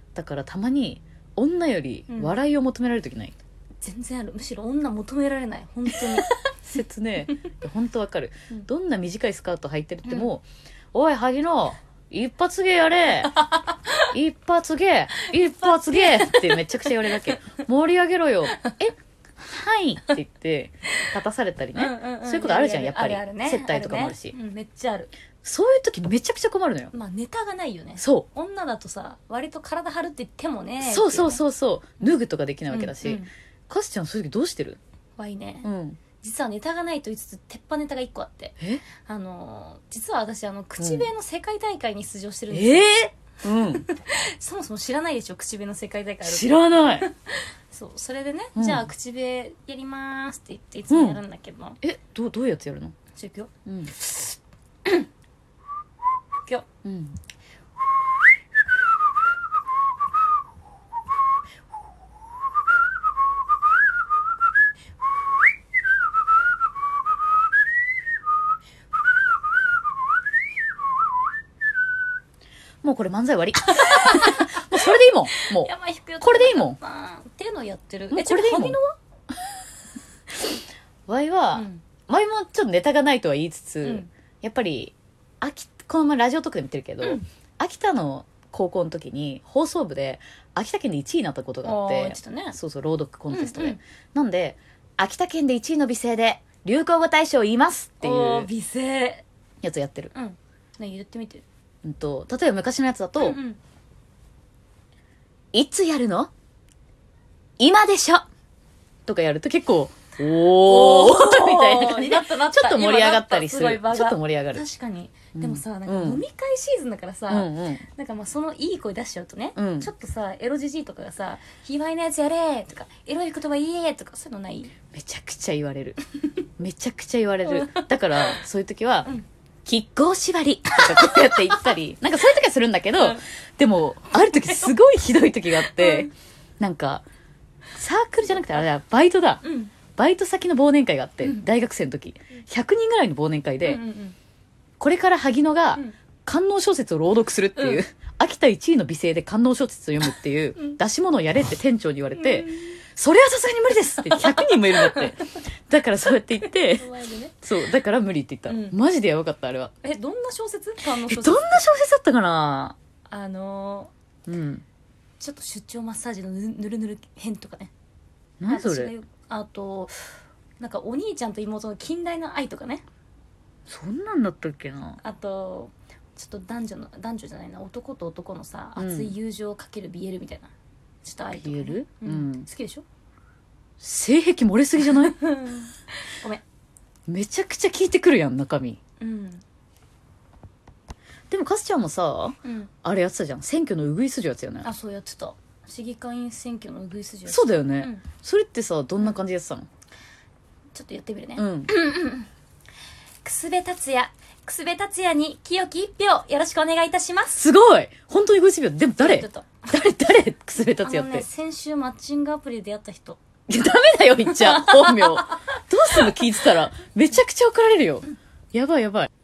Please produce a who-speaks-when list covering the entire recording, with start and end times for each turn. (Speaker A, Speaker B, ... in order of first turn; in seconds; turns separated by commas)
Speaker A: 0.1-3.4, Speaker B: 2.1-2.3, Speaker B: 3.8-6.3, Speaker A: 6.6-13.4, Speaker A: 14.1-24.3, Speaker B: 15.3-17.4, Speaker B: 21.7-25.1, Speaker A: 25.4-26.9, Speaker B: 26.9-31.4, Speaker A: 28.0-28.3, Speaker A: 30.8-34.8, Speaker B: 32.7-33.3, Speaker B: 35.2-35.7, Speaker A: 35.6-36.0, Speaker B: 36.2-42.9, Speaker A: 38.6-38.8, Speaker A: 40.8-41.1, Speaker A: 42.5-43.9, Speaker B: 43.7-51.8, Speaker A: 46.2-47.1, Speaker A: 48.5-48.9, Speaker A: 50.9-51.2, Speaker A: 51.8-52.9, Speaker B: 53.1-54.3, Speaker A: 53.6-53.9, Speaker A: 56.8-57.1, Speaker A: 72.8-76.8, Speaker B: 73.6-79.0, Speaker A: 78.1-78.8, Speaker A: 81.1-98.5, Speaker B: 81.5-81.8, Speaker B: 83.8-84.1, Speaker B: 91.6-92.6, Speaker B: 93.3-93.8, Speaker B: 98.0-99.2, Speaker A: 99.6-100.1, Speaker B: 100.1-101.4, Speaker A: 101.8-103.4, Speaker B: 103.2-103.6, Speaker A: 105.5-106.3, Speaker A: 107.6-108.2, Speaker A: 109.0-114.6, Speaker B: 110.5-124.7, Speaker A: 115.3-116.2, Speaker A: 117.3-117.8, Speaker A: 119.5-119.9, Speaker A: 124.8-126.0, Speaker A: 126.6-129.1, Speaker B: 127.5-128.4, Speaker A: 129.6-137.0, Speaker B: 130.9-131.7, Speaker B: 132.9-133.2, Speaker B: 134.1-134.7, Speaker B: 135.5-136.1, Speaker A: 137.8-143.8, Speaker B: 139.4-139.7, Speaker B: 143.6-144.2, Speaker A: 144.8-156.9, Speaker B: 147.6-147.8, Speaker B: 152.1-152.8, Speaker B: 154.0-155.2, Speaker B: 156.7-157.4, Speaker A: 157.4-159.7, Speaker B: 158.4-158.8, Speaker B: 159.8-161.6, Speaker A: 161.0-162.8, Speaker B: 163.1-163.9, Speaker A: 164.3-164.6, Speaker B: 165.2-167.7, Speaker A: 168.4-168.9, Speaker B: 168.4-169.9, Speaker B: 170.6-172.8, Speaker A: 173.7-175.0, Speaker B: 175.0-180.5, Speaker A: 178.8-179.1, Speaker B: 181.0-182.8, Speaker A: 181.3-182.5, Speaker A: 183.8-185.2, Speaker B: 184.8-186.4, Speaker A: 187.1-188.8, Speaker B: 189.0-189.4, Speaker A: 191.3-194.7, Speaker B: 192.4-192.7, Speaker B: 194.6-198.0, Speaker A: 197.3-199.7, Speaker B: 200.7-202.3, Speaker A: 201.3-201.7, Speaker B: 203.2-207.4, Speaker A: 207.3-211.2, Speaker B: 209.0-209.7, Speaker B: 210.8-213.2, Speaker A: 213.5-219.1, Speaker B: 214.2-215.4